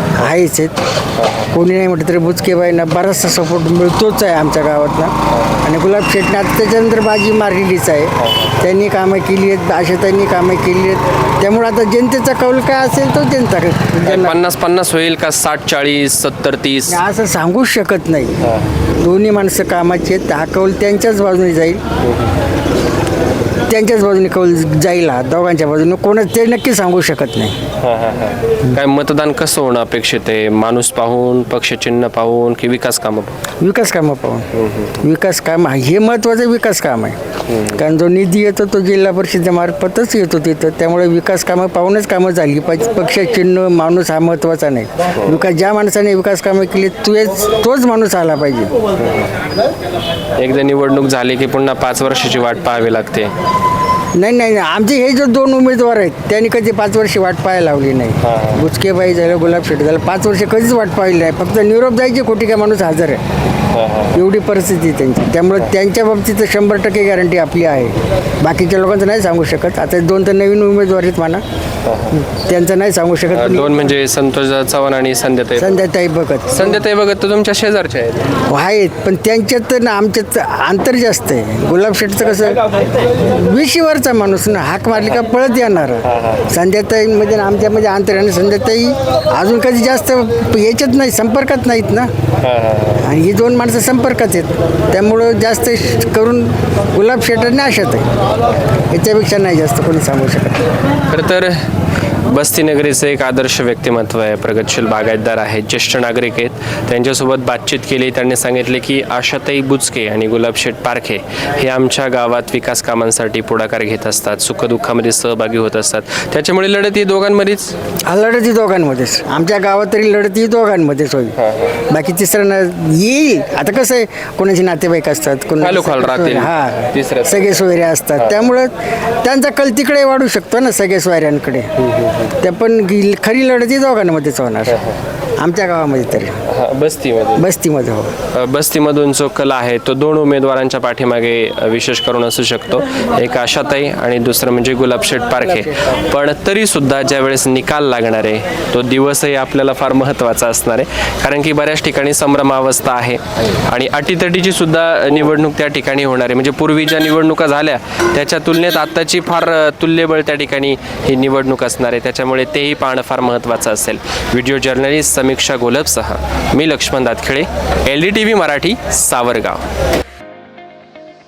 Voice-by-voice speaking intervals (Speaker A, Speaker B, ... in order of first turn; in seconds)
Speaker A: 0.2-0.8, 1.5-14.4, 16.9-18.4, 19.0-21.8, 23.7-27.6, 33.6-34.5, 35.0-37.2, 37.7-48.7, 54.2-63.2, 64.1-71.4, 72.1-73.8, 75.6-76.8, 78.5-92.1, 93.0-98.1, 98.9-100.6, 118.1-121.3, 121.9-131.7, 132.4-134.8, 135.4-136.4, 137.4-138.1, 145.4-145.8
Speaker B: 1.2-1.5, 8.2-8.5, 14.1-17.0, 27.8-33.4, 34.5-35.0, 37.5-37.8, 50.4-53.3, 58.2-58.6, 63.7-64.2, 71.9-72.2, 73.3-75.8, 76.5-78.3, 86.0-86.4, 92.4-93.1, 101.1-101.5, 102.3-117.7, 121.4-121.8, 125.6-127.7, 131.8-132.3, 136.5-137.5, 138.3-169.6